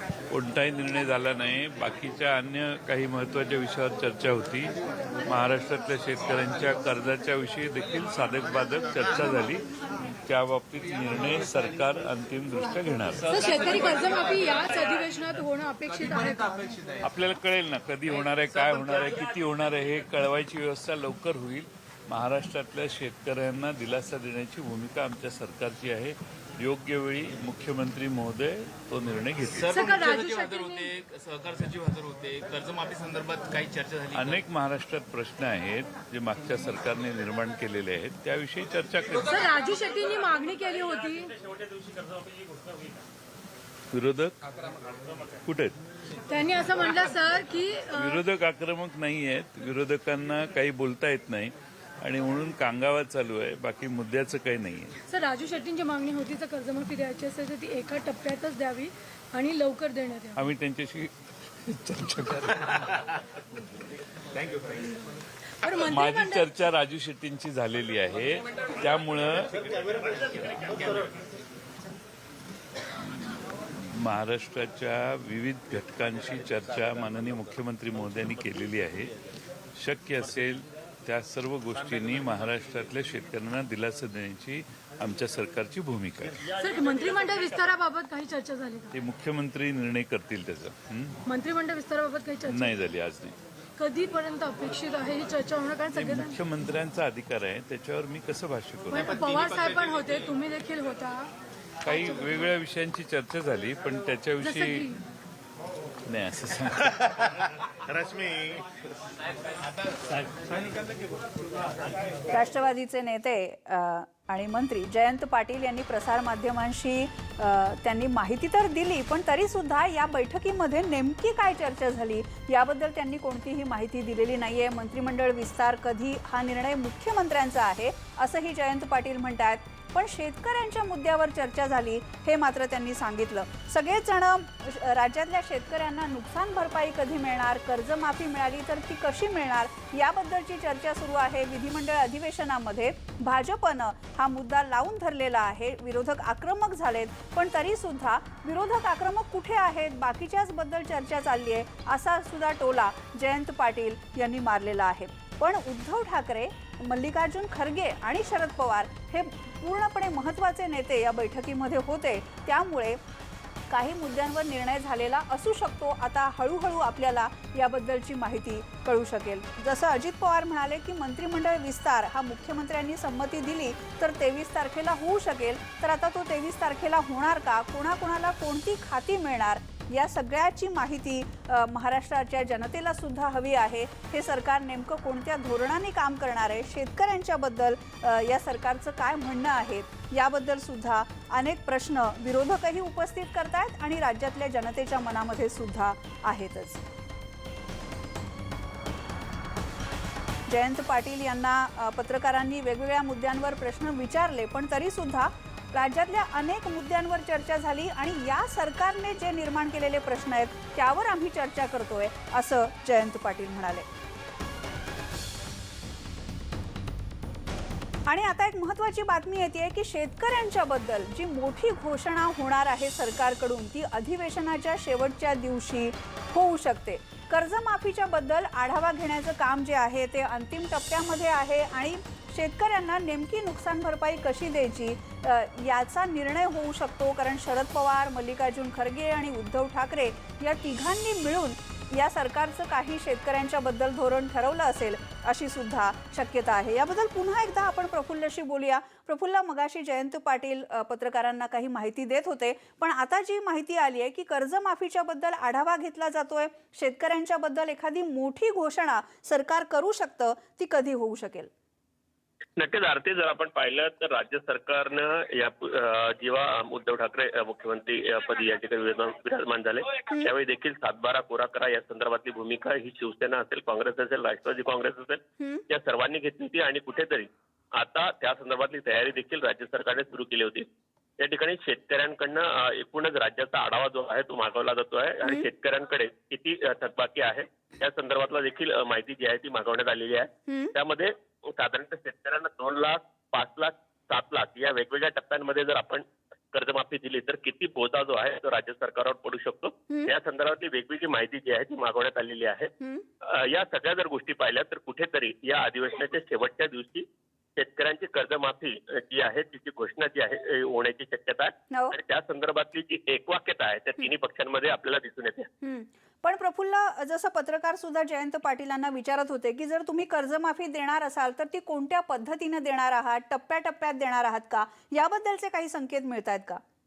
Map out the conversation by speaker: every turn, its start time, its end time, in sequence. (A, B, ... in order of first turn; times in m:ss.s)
0:00.3-0:04.7 A
0:05.2-0:09.6 A
0:10.2-0:13.2 A
0:13.3-0:16.7 B
0:17.0-0:29.7 A
0:29.5-0:34.4 C
0:29.7-0:30.9 B
0:34.1-0:39.4 A
0:39.3-0:41.4 B
0:43.9-0:44.3 A
0:45.4-0:45.7 A
0:46.3-0:48.2 B
0:47.9-0:54.9 A
0:55.1-1:00.5 B
1:00.4-1:01.1 A
1:01.6-1:03.0 A
1:05.6-1:06.5 B
1:05.8-1:09.6 A
1:13.3-1:19.1 A
1:19.8-1:26.4 A
1:26.5-1:28.9 B
1:28.9-1:31.2 A
1:31.2-1:32.8 B
1:32.5-1:33.4 A
1:33.8-1:36.4 B
1:35.9-1:39.2 A
1:38.9-1:41.3 B
1:41.8-1:44.9 A
1:41.8-1:42.5 B
1:44.4-1:45.0 B
1:46.1-1:46.9 A
1:52.3-2:43.0 D
2:43.7-3:16.8 D
3:20.5-3:33.8 D
3:38.1-4:21.5 D
4:22.6-4:40.7 E
4:41.2-5:15.5 E
4:50.5-4:50.7 D
5:11.7-5:12.0 D
5:15.6-5:26.6 D